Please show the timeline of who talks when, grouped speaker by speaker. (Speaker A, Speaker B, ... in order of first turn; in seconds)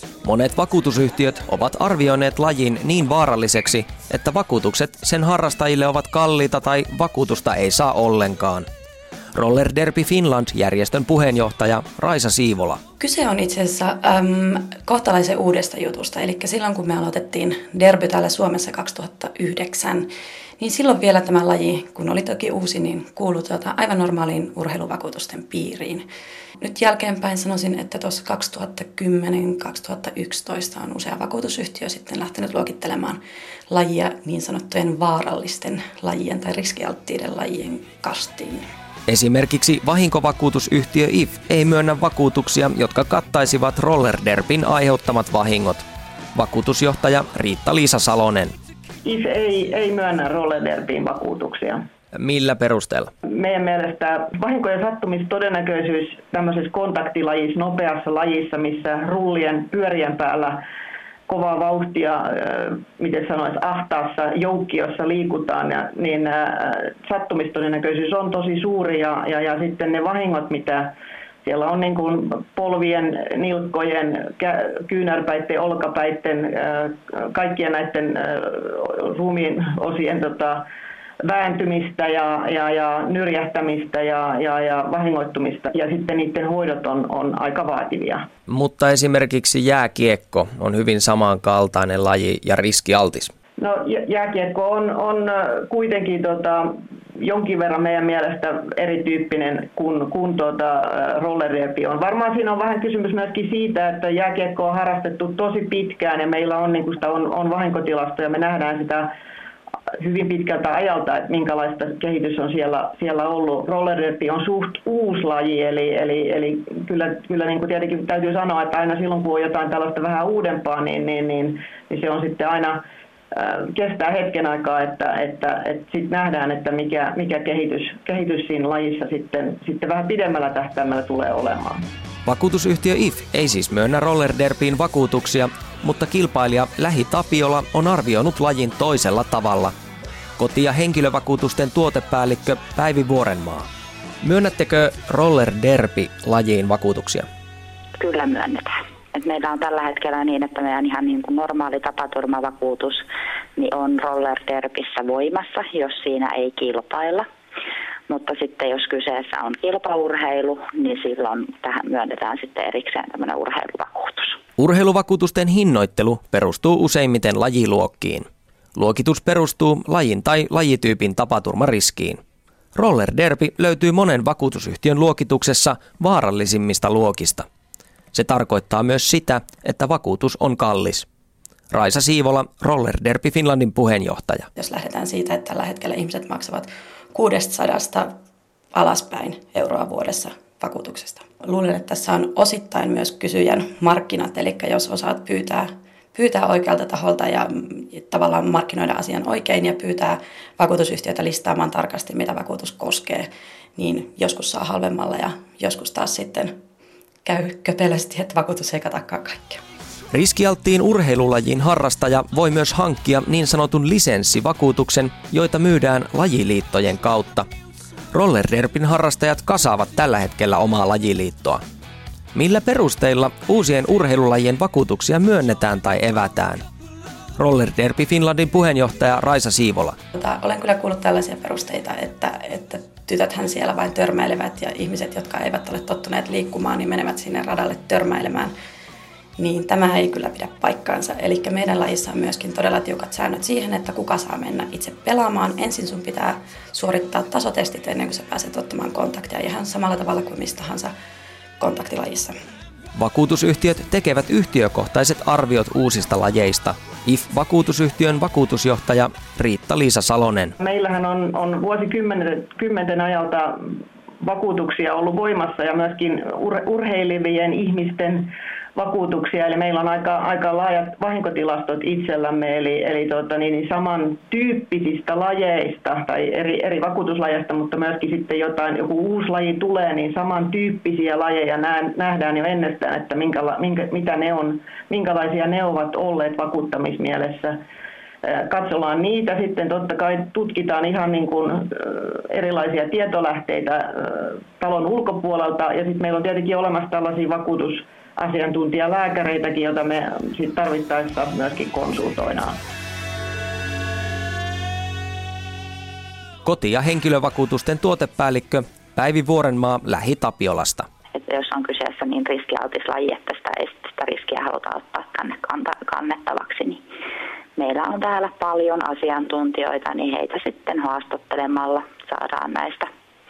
Speaker A: 0.2-8.7, 9.3-12.8, 39.1-45.8, 46.3-48.5, 52.1-53.1, 88.5-93.3, 132.2-139.7, 140.4-143.7, 144.2-147.3, 164.6-172.2, 172.8-177.4, 178.1-181.1, 181.7-184.5, 210.1-217.4, 218.1-221.6, 222.3-226.6, 227.4-229.9, 252.9-260.6, 306.4-310.9
Speaker B: 13.0-26.1, 26.6-38.7, 184.6-188.1, 188.7-206.6, 207.2-209.6, 230.1-238.5, 239.4-250.9, 251.6-252.3
Speaker C: 49.0-51.8, 53.3-60.6, 61.3-70.9, 71.4-80.6, 81.2-88.3, 93.6-109.1, 110.0-122.8, 123.3-131.8, 260.6-287.6, 288.2-302.6
Speaker D: 148.0-153.1, 153.6-157.2, 158.1-164.4, 311.1-316.8, 317.6-322.9